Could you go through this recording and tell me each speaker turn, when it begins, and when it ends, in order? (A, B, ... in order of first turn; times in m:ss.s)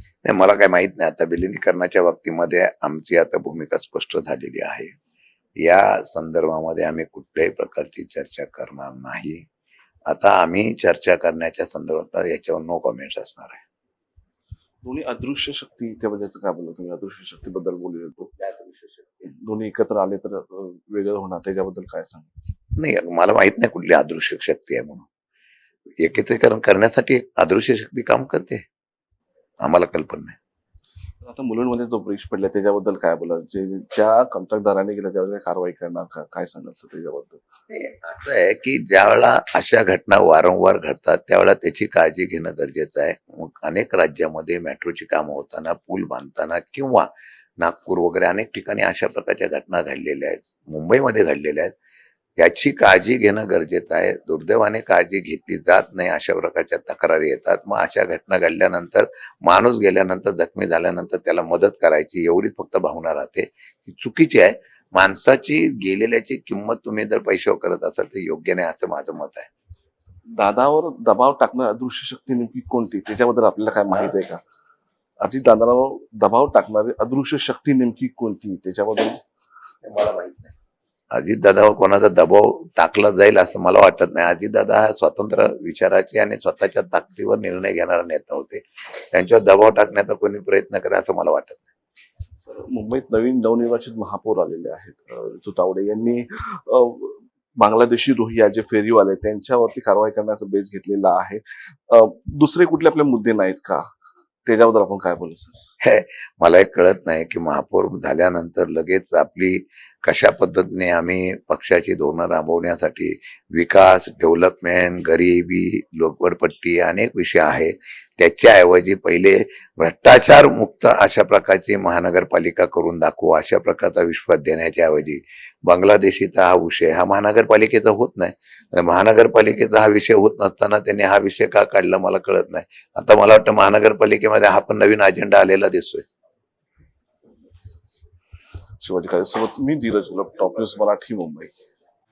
0:00.2-0:04.9 A
0:05.6-0:09.4 A
0:10.1-0:13.6 A
0:14.8-0:18.3 B
0:18.4-0:19.1 A
0:19.2-0:22.3 B
0:22.8-0:25.1 A
0:26.0-0:28.6 A
0:29.6-0:30.4 A
0:31.2-0:37.4 B
0:37.7-0:51.7 A
0:52.4-1:09.5 A
1:10.4-1:14.4 B
1:15.2-1:19.2 B
1:19.8-1:20.5 A
1:21.1-1:31.7 A
1:32.4-1:43.9 B
1:44.5-1:45.6 B
1:45.8-2:16.0 A
2:18.8-2:21.6 B